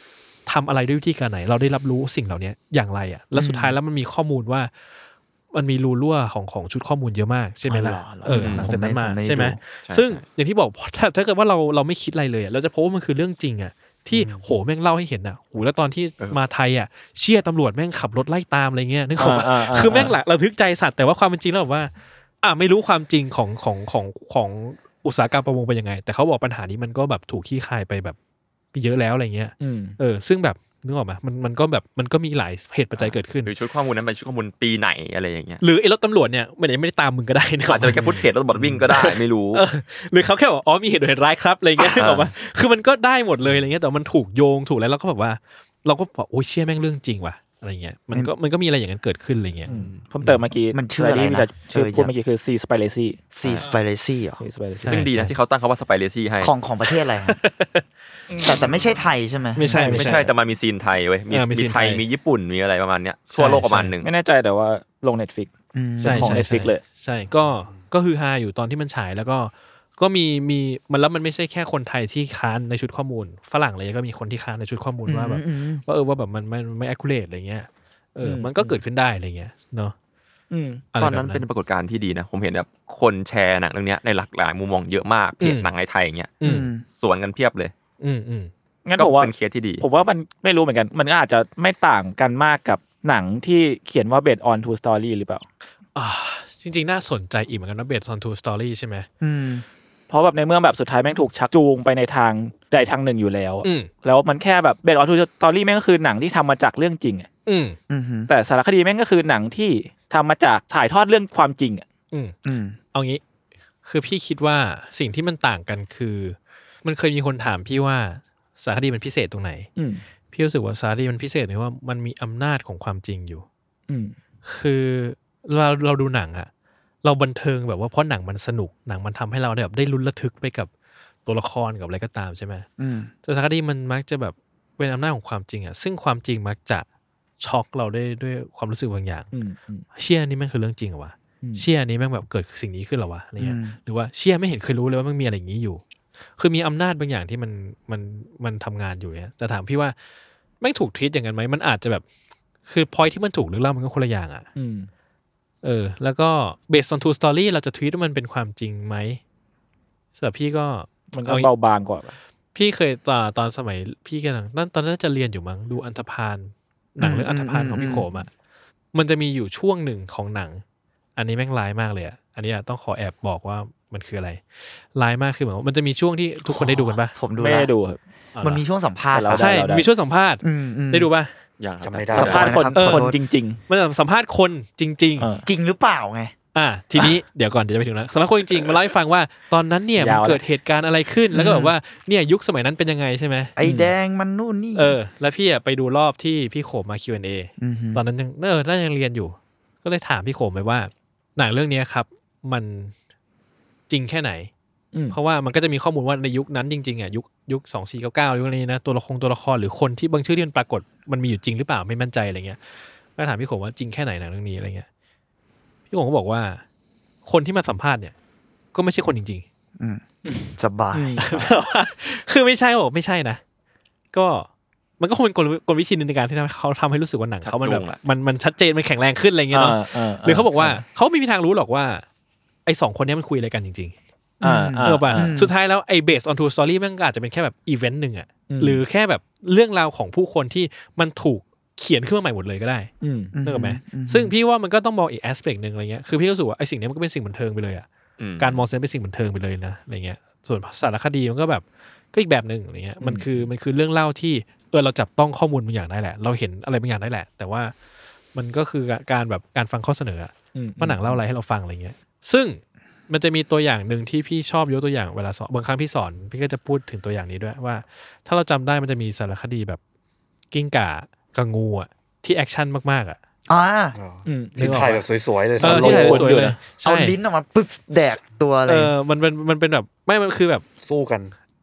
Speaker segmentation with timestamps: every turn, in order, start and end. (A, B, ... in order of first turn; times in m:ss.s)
0:00.5-0:04.7 A
0:03.3-0:03.8 B
0:05.5-0:21.9 A
0:07.7-0:09.6 B
0:08.3-0:08.7 C
0:09.8-0:10.2 C
0:14.1-0:14.4 D
0:19.2-0:20.2 E
0:22.4-0:28.2 A
0:28.7-0:33.5 A
0:29.6-0:30.0 E
0:33.0-0:35.6 C
0:35.6-0:38.3 A
0:37.7-0:39.6 C
0:38.9-0:50.5 A
0:41.8-0:42.3 C
0:49.7-0:53.2 E
0:49.7-0:50.0 C
0:50.7-0:52.1 B
0:53.3-0:54.4 B
0:54.4-0:55.0 E
0:54.8-0:55.3 A
0:54.9-0:56.5 C
0:56.4-0:57.4 B
0:56.9-0:57.9 A
0:58.3-0:58.6 E
0:58.4-0:59.6 B
0:59.6-1:00.3 A
0:59.6-1:00.3 E
0:59.7-1:04.1 C
1:01.3-1:02.0 A
1:03.3-1:03.9 A
1:04.0-1:06.8 E
1:05.7-1:06.4 B
1:06.0-1:20.0 A
1:15.1-1:15.8 B
1:18.2-1:18.8 E
1:20.5-1:20.9 E
1:20.9-1:21.4 A
1:21.0-1:26.4 C
1:25.4-1:25.7 A
1:26.4-1:26.7 A
1:26.4-1:26.8 B
1:27.0-1:27.7 C
1:28.0-1:28.5 A
1:28.8-1:35.4 E
1:29.0-1:29.8 C
1:36.0-1:39.1 A
1:39.2-1:39.6 B
1:40.1-1:47.3 E
1:43.6-1:43.9 A
1:47.5-1:47.8 A
1:47.9-1:48.3 B
1:48.3-1:51.8 E
1:52.4-1:52.8 B
1:52.9-1:53.2 A
1:53.8-1:59.7 A
1:59.8-2:00.0 E
2:00.3-2:03.4 A
2:03.9-2:04.2 E
2:04.4-2:06.5 A
2:07.0-2:10.7 A
2:11.3-2:12.7 A
2:12.8-2:13.1 B
2:13.2-2:16.8 A
2:17.4-2:19.3 A
2:19.3-2:19.9 E
2:20.0-2:25.8 A
2:23.4-2:23.8 B
2:26.4-2:30.0 A
2:30.6-2:32.0 A
2:32.7-2:34.5 A
2:34.6-2:34.9 E
2:35.6-2:39.2 A
2:40.2-2:41.5 A
2:41.1-2:42.2 E
2:42.5-2:48.3 A
2:47.0-2:48.1 B
2:48.9-2:50.6 A
2:51.2-2:57.1 A
2:56.5-2:57.7 B
2:57.4-2:58.0 E
2:58.4-2:58.6 A
2:58.4-2:59.6 B
2:59.1-2:59.9 E
2:59.3-3:01.3 A
3:00.4-3:01.1 B
3:01.6-3:02.5 C
3:01.8-3:02.6 D
3:02.1-3:03.2 B
3:02.2-3:03.6 E
3:02.7-3:03.1 A
3:03.7-3:05.3 A
3:05.2-3:05.5 E
3:05.4-3:06.3 B
3:06.5-3:13.5 A
3:10.0-3:10.4 E
3:11.3-3:11.7 B
3:13.6-3:15.0 B
3:13.6-3:13.9 E
3:14.8-3:22.9 A
3:17.6-3:18.0 B
3:23.9-3:24.5 A
3:25.1-3:32.6 A
3:33.2-3:34.9 A
3:35.9-3:36.6 A
3:37.2-3:38.1 A
3:38.7-3:39.4 A
3:40.2-3:41.3 E
3:40.6-3:41.5 B
3:41.2-3:43.4 A
3:44.1-3:44.5 A
3:45.0-3:52.0 A
3:47.4-3:48.0 C
3:49.5-3:50.8 E
3:52.7-3:53.9 A
3:54.4-3:55.4 E
3:54.4-3:55.5 B
3:54.8-4:02.9 A
3:58.5-3:58.8 E
4:03.0-4:03.3 E
4:03.3-4:04.3 B
4:03.4-4:07.9 A
4:08.2-4:08.6 C
4:08.4-4:17.7 A
4:13.0-4:13.5 E
4:18.4-4:29.8 A
4:20.6-4:21.2 E
4:30.5-4:33.2 A
4:33.5-4:34.0 B
4:34.0-4:36.3 D
4:34.3-4:34.8 E
4:34.6-4:35.0 A
4:35.6-4:37.2 A
4:35.6-4:36.7 E
4:36.8-4:38.9 B
4:38.7-4:40.6 A
4:40.8-4:41.3 D